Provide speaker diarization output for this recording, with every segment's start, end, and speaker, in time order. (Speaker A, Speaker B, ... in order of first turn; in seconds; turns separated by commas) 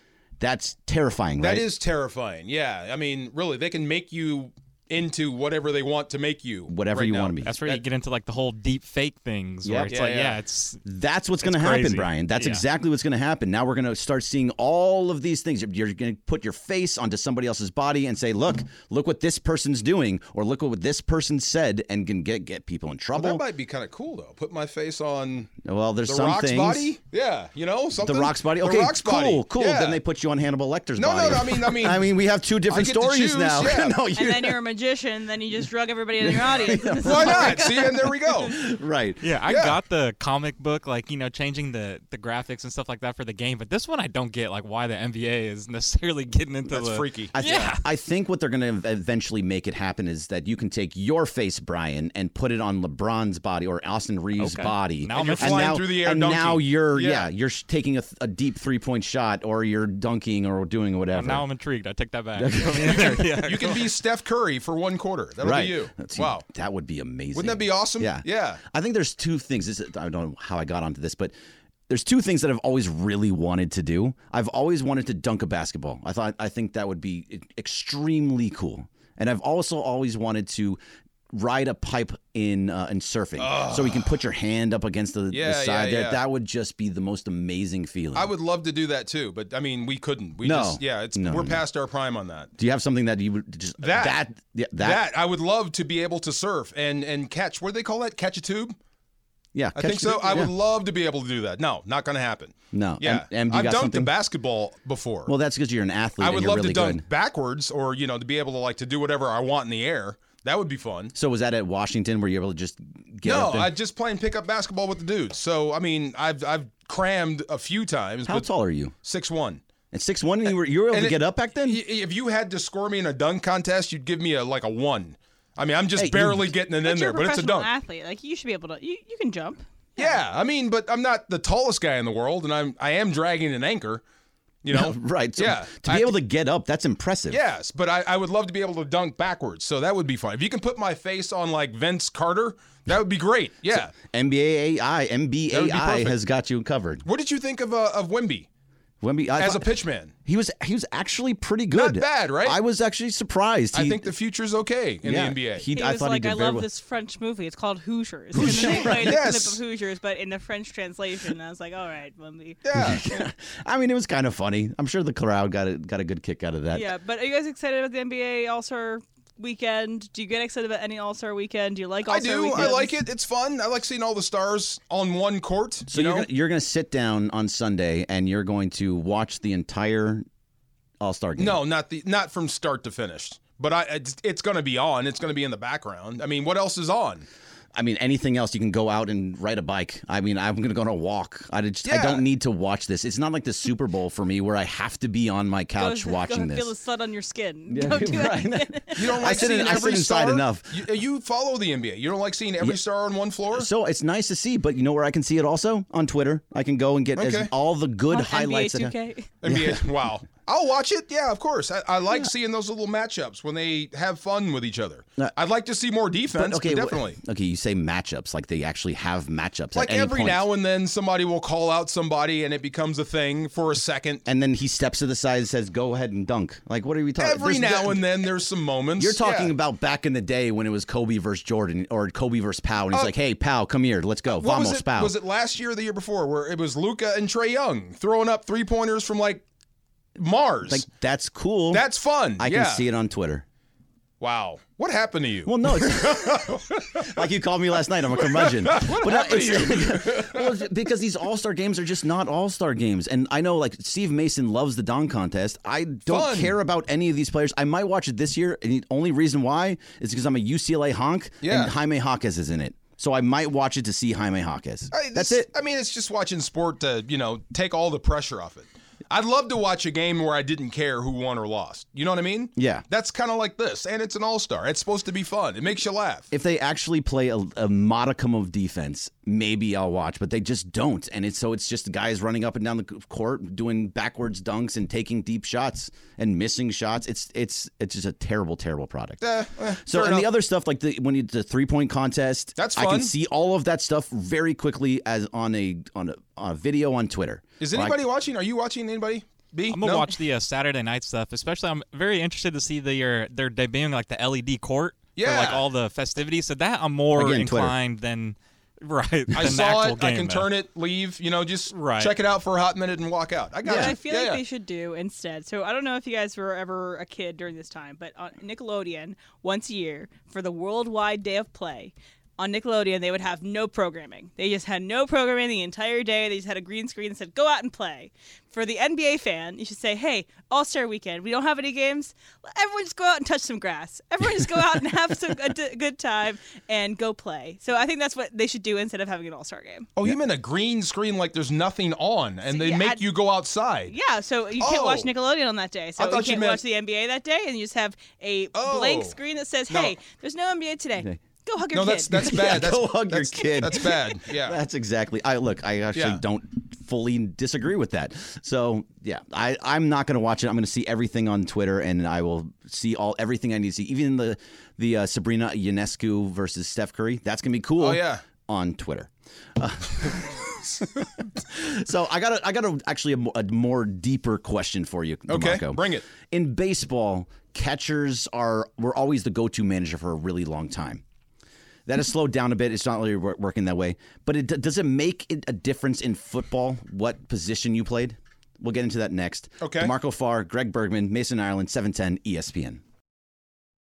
Speaker A: 0.4-1.7, Speaker B: 1.4-7.8, Speaker A: 6.7-7.5, Speaker C: 7.4-10.8, Speaker A: 9.6-9.9, Speaker B: 9.9-10.4, Speaker A: 10.8-23.4, Speaker C: 11.4-12.6, Speaker B: 23.2-30.0, Speaker A: 25.6-26.9, Speaker A: 28.0-34.6, Speaker B: 31.0-32.1, Speaker B: 32.7-34.0, Speaker D: 34.1-38.0, Speaker A: 36.2-39.2, Speaker B: 37.0-38.5, Speaker C: 39.2-47.8, Speaker B: 39.5-39.8, Speaker B: 46.7-47.3, Speaker A: 47.3-61.4, Speaker C: 54.4-55.8, Speaker B: 55.1-57.3, Speaker C: 61.1-63.8, Speaker A: 62.4-63.8, Speaker B: 63.5-66.4, Speaker A: 65.4-71.3, Speaker B: 67.3-68.6, Speaker A: 71.9-80.8, Speaker A: 81.3-88.3, Speaker B: 83.4-84.2, Speaker B: 85.3-86.2, Speaker B: 88.2-92.5, Speaker A: 90.4-91.6, Speaker A: 92.6-95.0, Speaker B: 93.8-94.2, Speaker B: 94.8-98.8, Speaker A: 99.5-100.5, Speaker B: 99.8-105.3, Speaker A: 102.7-104.1, Speaker A: 105.3-107.0, Speaker B: 106.2-111.1, Speaker A: 111.1-113.7, Speaker B: 113.2-118.5, Speaker A: 118.3-118.9, Speaker B: 119.0-119.6, Speaker A: 119.9-121.8, Speaker B: 120.9-127.7, Speaker A: 126.0-126.5, Speaker D: 126.8-130.2, Speaker B: 130.0-134.0, Speaker B: 134.6-136.1, Speaker A: 134.7-137.4, Speaker B: 137.3-143.9, Speaker A: 143.7-147.1, Speaker B: 145.5-146.2, Speaker B: 147.1-148.5, Speaker A: 149.0-149.7, Speaker B: 149.4-150.1, Speaker A: 150.2-154.1, Speaker B: 151.7-152.6, Speaker B: 153.7-155.7, Speaker A: 155.0-156.7, Speaker D: 155.7-162.6, Speaker A: 158.3-159.2, Speaker B: 158.4-159.6, Speaker B: 162.6-163.2, Speaker A: 162.8-166.9, Speaker D: 166.7-172.9, Speaker B: 172.1-176.3, Speaker A: 175.9-180.2, Speaker A: 181.0-181.6, Speaker B: 181.4-187.3, Speaker A: 187.8-196.7, Speaker B: 191.8-192.2, Speaker D: 195.8-199.0, Speaker A: 197.7-200.7, Speaker B: 199.0-203.7, Speaker A: 203.5-209.8, Speaker B: 207.2-207.5, Speaker D: 208.1-209.3, Speaker B: 209.4-217.2, Speaker A: 216.3-220.4, Speaker B: 219.8-224.2, Speaker A: 224.3-228.1, Speaker B: 227.2-229.5, Speaker A: 229.0-235.1, Speaker B: 234.3-239.4, Speaker B: 240.2-240.8, Speaker A: 240.7-241.8, Speaker B: 241.7-242.9, Speaker A: 242.4-243.4, Speaker B: 244.2-247.2, Speaker A: 245.4-265.5, Speaker B: 248.2-250.6, Speaker B: 256.1-256.5, Speaker B: 261.4-261.7, Speaker B: 264.9-276.3, Speaker A: 272.6-272.8, Speaker A: 276.3-289.2, Speaker B: 289.2-290.3, Speaker A: 289.8-298.0, Speaker B: 292.6-293.1, Speaker B: 297.6-300.1, Speaker C: 299.7-310.5, Speaker B: 305.2-305.6, Speaker A: 307.1-307.8, Speaker B: 309.4-314.4, Speaker C: 311.7-312.1, Speaker A: 313.6-313.9, Speaker D: 313.7-339.9, Speaker B: 340.0-343.9, Speaker D: 342.5-343.0, Speaker D: 343.9-352.6, Speaker B: 344.6-345.1, Speaker B: 346.0-346.6, Speaker B: 348.6-349.1, Speaker B: 349.7-349.9, Speaker B: 351.7-354.6, Speaker A: 352.1-381.0, Speaker B: 355.9-356.2, Speaker B: 367.8-368.2, Speaker B: 375.3-376.0, Speaker A: 381.9-392.8, Speaker B: 389.6-389.9